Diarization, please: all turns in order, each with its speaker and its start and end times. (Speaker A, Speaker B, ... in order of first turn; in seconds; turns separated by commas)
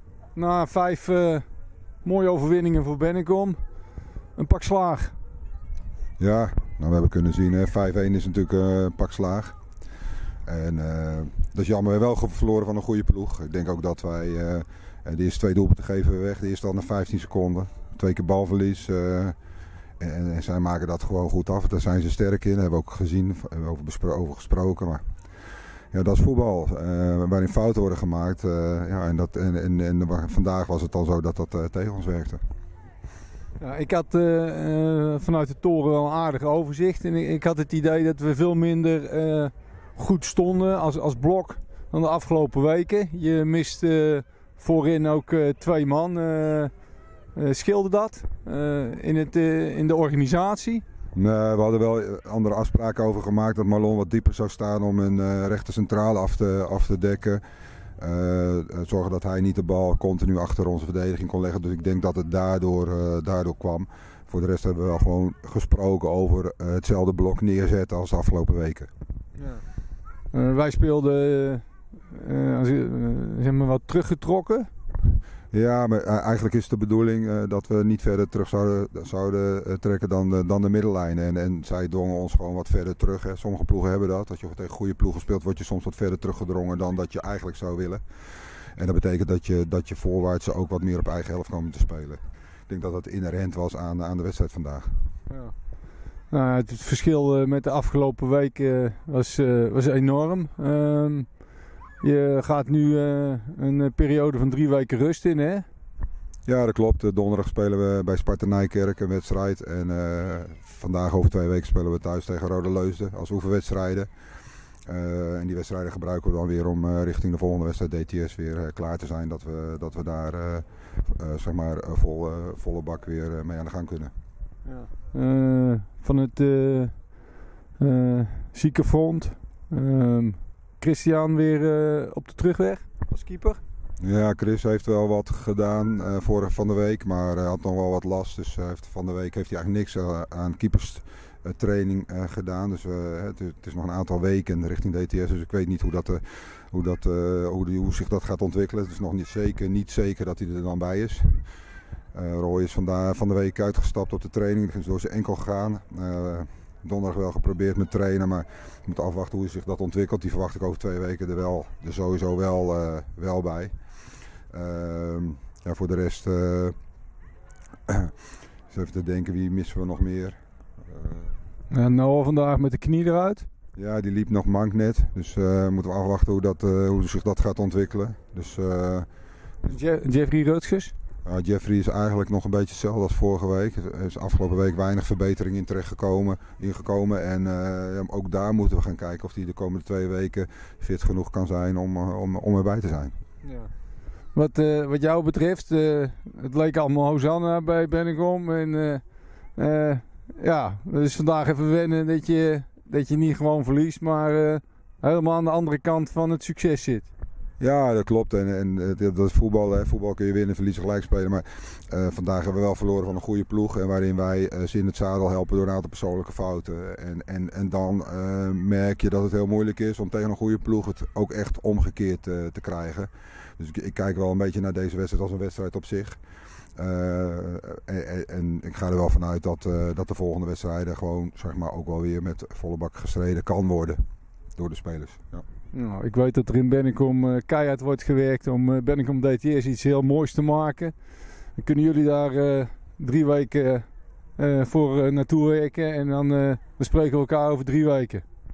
Speaker A: 0.3-1.5, Speaker A: 2.0-3.6, Speaker A: 4.4-5.2, Speaker B: 6.2-9.6, Speaker B: 10.5-19.4, Speaker B: 20.0-25.0, Speaker B: 25.9-32.4, Speaker A: 33.6-46.7, Speaker A: 47.3-50.8, Speaker B: 51.1-57.4, Speaker B: 58.0-68.9, Speaker A: 69.4-69.6, Speaker A: 70.3-74.7, Speaker B: 75.5-95.1, Speaker A: 95.3-95.5, Speaker A: 96.3-101.5, Speaker A: 102.0-105.7, Speaker B: 106.5-114.1, Speaker B: 114.8-124.1, Speaker A: 124.7-133.6, Speaker B: 134.0-151.6, Speaker B: 152.1-166.8, Speaker B: 167.9-168.1, Speaker B: 168.7-171.4, Speaker A: 171.7-173.5, Speaker B: 173.8-179.1, Speaker A: 179.7-180.9, Speaker B: 181.2-193.2, Speaker A: 193.4-193.7, Speaker A: 194.3-207.1, Speaker B: 207.6-226.2, Speaker B: 226.8-234.0, Speaker B: 234.5-235.4, Speaker A: 235.7-241.0, Speaker A: 241.6-248.2